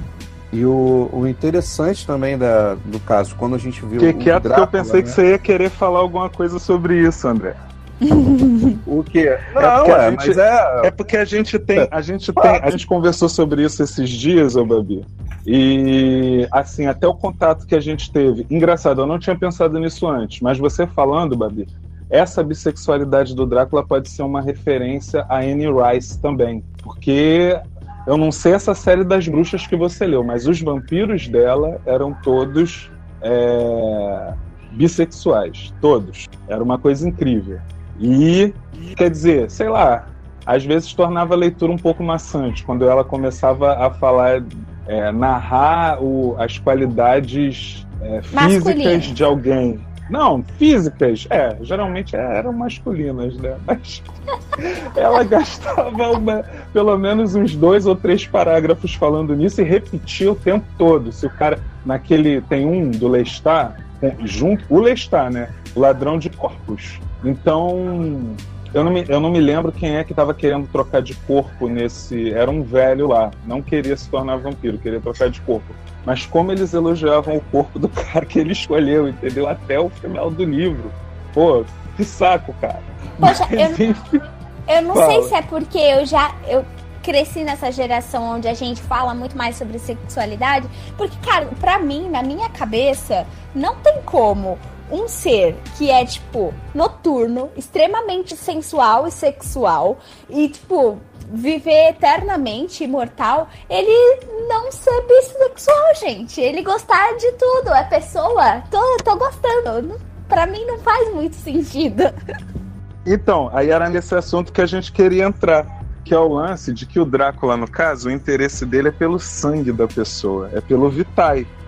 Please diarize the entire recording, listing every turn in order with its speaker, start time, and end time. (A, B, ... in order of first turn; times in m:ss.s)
0:00.5-0:05.2 A
0:04.0-0:07.5 B
0:08.0-0:08.8 C
0:08.8-0:54.0 B
0:09.5-0:10.9 A
0:11.8-0:12.8 A
0:48.3-0:49.2 C
0:54.6-1:24.2 B
1:23.2-1:23.8 C
1:24.7-1:52.1 C
1:24.9-1:25.3 B
1:53.0-2:01.5 B